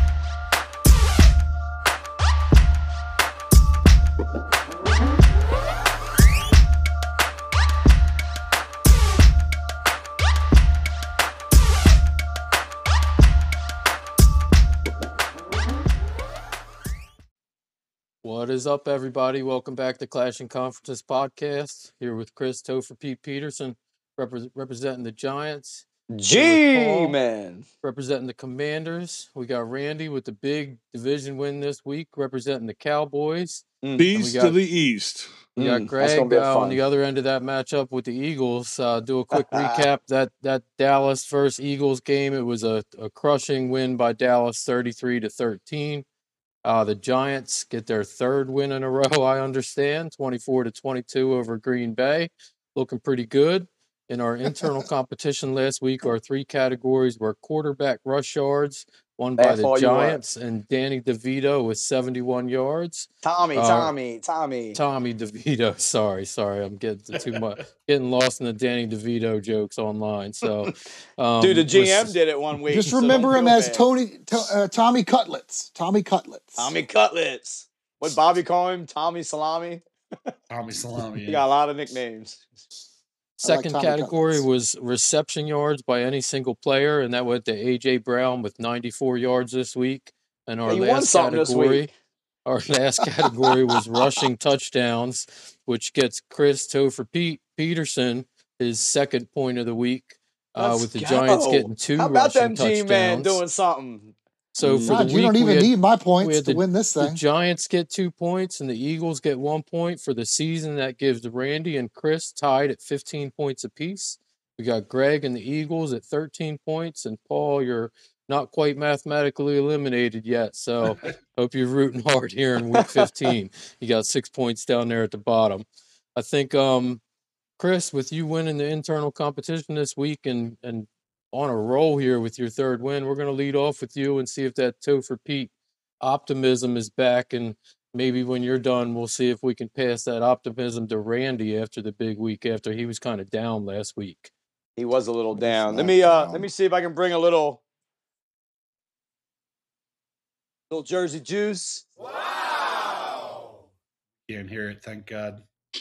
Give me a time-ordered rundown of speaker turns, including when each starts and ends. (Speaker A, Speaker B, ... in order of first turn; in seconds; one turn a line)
Speaker A: 18.2-27.1
Speaker B: 26.1-27.6
Speaker A: 27.8-34.6
Speaker B: 33.8-34.1
Speaker C: 34.0-35.5
Speaker B: 35.5-36.8
Speaker A: 35.5-46.0
Speaker B: 39.3-39.9
Speaker A: 46.6-63.9
Speaker B: 59.4-60.2
Speaker B: 63.2-64.8
Speaker A: 64.7-72.2
Speaker D: 67.2-67.4
Speaker B: 71.4-73.9
Speaker E: 72.7-76.7
Speaker A: 72.9-73.2
Speaker B: 76.6-80.3
Speaker D: 80.5-81.4
Speaker B: 81.2-82.5
Speaker A: 83.4-91.9
Speaker E: 83.4-84.4
Speaker B: 90.7-91.9
Speaker A: 92.4-103.4
Speaker B: 93.1-94.2
Speaker B: 100.6-104.1
Speaker A: 104.5-127.0
Speaker C: 104.6-105.1
Speaker E: 104.8-107.2
Speaker B: 122.7-123.0
Speaker A: 127.6-144.3
Speaker B: 144.8-147.6
Speaker C: 145.3-146.5
Speaker B: 150.7-151.8
Speaker D: 154.3-155.4